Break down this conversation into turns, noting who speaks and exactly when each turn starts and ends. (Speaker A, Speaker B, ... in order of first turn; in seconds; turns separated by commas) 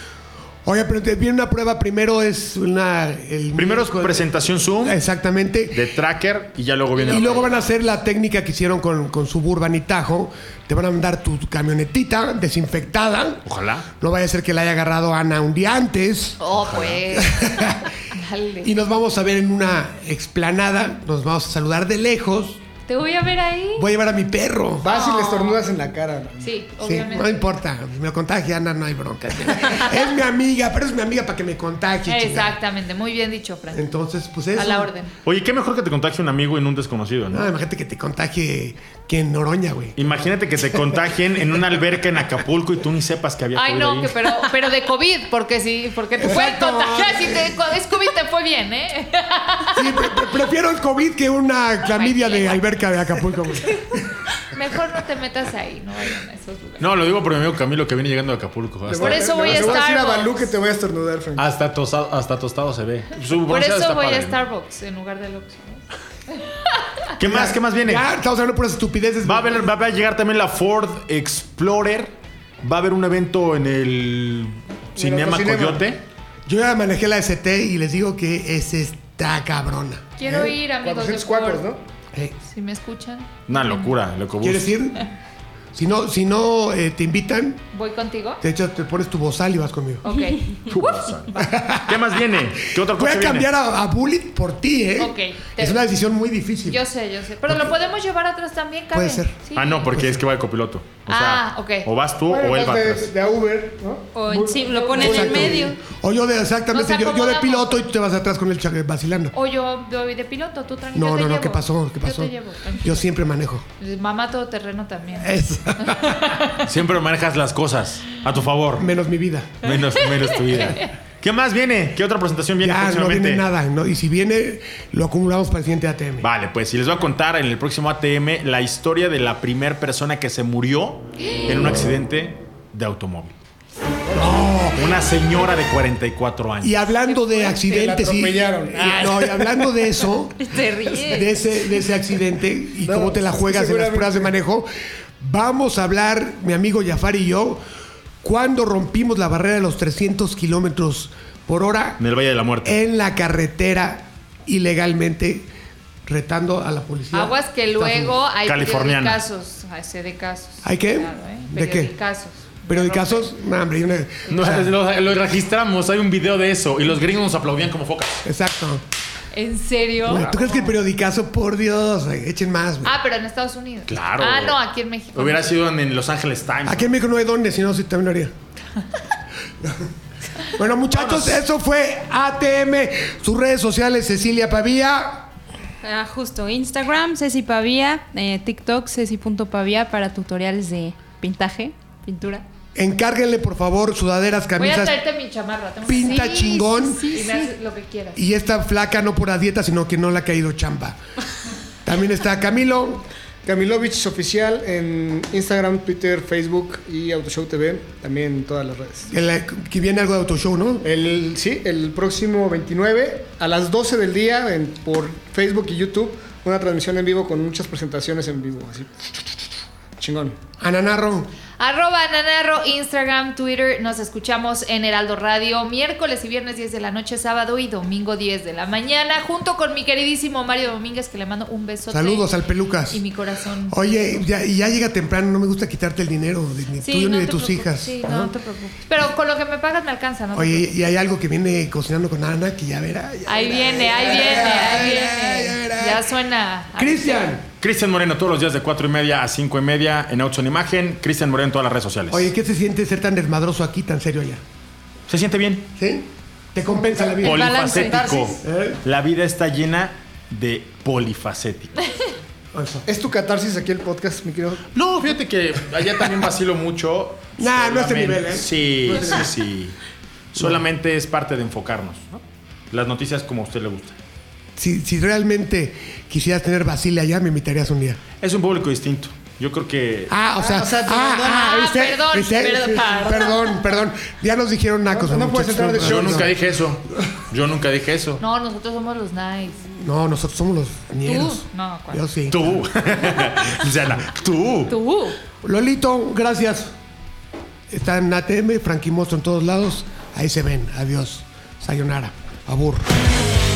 Speaker A: 0.6-5.9, Speaker B: 3.5-5.0, Speaker B: 5.7-7.5, Speaker C: 7.0-7.4, Speaker A: 7.0-13.4, Speaker B: 13.4-13.9, Speaker A: 14.0-16.4, Speaker C: 16.4-18.7, Speaker B: 16.6-17.0, Speaker A: 17.1-17.9, Speaker A: 18.6-22.6, Speaker C: 22.9-23.9, Speaker A: 23.8-24.9, Speaker D: 24.8-26.5, Speaker C: 24.9-25.6, Speaker C: 26.4-27.5, Speaker A: 26.8-32.6, Speaker C: 32.1-33.9, Speaker A: 33.7-34.9, Speaker C: 34.5-35.1, Speaker B: 35.2-37.5, Speaker A: 37.3-40.0, Speaker B: 40.0-44.3, Speaker C: 43.5-49.8, Speaker A: 46.2-47.6, Speaker A: 49.7-54.0, Speaker C: 51.8-52.7, Speaker C: 54.4-56.9, Speaker B: 56.8-59.8, Speaker D: 58.9-61.5, Speaker C: 59.0-60.5, Speaker B: 61.4-64.4, Speaker C: 63.4-66.9, Speaker B: 67.2-68.1, Speaker A: 67.2-69.7, Speaker B: 69.2-76.0, Speaker D: 75.0-75.8, Speaker A: 76.5-80.2, Speaker C: 80.2-81.6, Speaker D: 80.2-81.8, Speaker C: 82.5-83.9, Speaker B: 83.5-84.7, Speaker A: 84.4-85.0, Speaker A: 85.7-87.6, Speaker C: 87.7-88.4, Speaker A: 88.4-90.0, Speaker C: 90.0-90.5, Speaker B: 90.7-93.5, Speaker A: 91.4-92.1, Speaker A: 92.8-96.8, Speaker C: 95.0-95.8, Speaker C: 96.7-99.9, Speaker A: 97.5-97.7, Speaker A: 98.9-100.2, Speaker B: 99.5-103.1, Speaker C: 101.0-101.9, Speaker D: 102.3-105.7, Speaker E: 104.1-105.8, Speaker C: 104.7-105.2, Speaker A: 105.0-109.3, Speaker C: 106.7-107.8, Speaker C: 109.3-113.1, Speaker A: 110.9-113.6, Speaker C: 113.8-116.6, Speaker A: 115.2-116.2, Speaker B: 116.6-118.9, Speaker A: 118.8-119.7, Speaker B: 119.6-123.5, Speaker C: 120.3-120.8, Speaker A: 122.6-126.3, Speaker B: 126.2-133.4, Speaker C: 131.2-131.5, Speaker D: 134.0-134.5, Speaker A: 134.1-134.8, Speaker B: 134.7-136.8, Speaker A: 136.6-140.4, Speaker C: 137.1-137.7, Speaker D: 137.5-139.5, Speaker E: 140.4-141.3, Speaker C: 140.6-141.2, Speaker A: 141.0-144.7, Speaker D: 142.8-144.3, Speaker A: 145.2-147.6, Speaker A: 148.2-152.0, Speaker B: 152.0-152.8, Speaker A: 152.6-155.5, Speaker A: 156.1-158.2, Speaker C: 157.1-163.3, Speaker B: 158.4-159.2, Speaker A: 160.6-161.9, Speaker A: 162.7-164.7, Speaker B: 164.3-168.2, Speaker A: 168.2-168.8, Speaker C: 169.3-170.7, Speaker A: 170.0-172.9, Speaker C: 172.8-175.5, Speaker B: 173.9-174.6, Speaker B: 175.1-176.9, Speaker A: 176.6-178.3, Speaker A: 180.5-185.3, Speaker B: 180.9-181.4, Speaker E: 185.8-192.4, Speaker A: 192.7-195.0, Speaker C: 194.6-198.2, Speaker A: 195.9-197.1, Speaker E: 196.1-197.5, Speaker A: 198.1-201.0, Speaker A: 201.8-203.0, Speaker D: 203.4-209.1, Speaker A: 209.1-210.8, Speaker D: 210.8-219.4, Speaker D: 220.0-220.4, Speaker A: 220.6-221.3, Speaker C: 221.6-232.3, Speaker A: 231.9-233.0, Speaker C: 232.9-233.9, Speaker A: 233.7-238.3, Speaker C: 236.8-240.7, Speaker A: 240.3-246.1, Speaker C: 243.2-247.3, Speaker A: 246.7-247.4, Speaker B: 247.6-252.3, Speaker A: 252.1-254.4, Speaker B: 255.1-255.7, Speaker A: 255.8-257.6, Speaker D: 256.8-258.3, Speaker B: 257.2-261.9, Speaker E: 257.2-258.4, Speaker A: 258.4-258.8, Speaker A: 262.5-262.8, Speaker D: 262.9-264.6, Speaker B: 264.7-269.8, Speaker A: 267.4-269.4, Speaker B: 270.3-274.0, Speaker A: 274.6-278.0, Speaker B: 278.2-280.1, Speaker A: 280.1-286.3, Speaker D: 280.4-281.4, Speaker C: 281.1-283.6, Speaker D: 284.9-286.3, Speaker B: 285.8-288.2, Speaker C: 288.2-289.6, Speaker A: 289.7-292.6, Speaker C: 291.0-292.0, Speaker B: 292.3-294.7, Speaker C: 294.7-295.2, Speaker A: 295.4-296.7, Speaker A: 297.7-302.9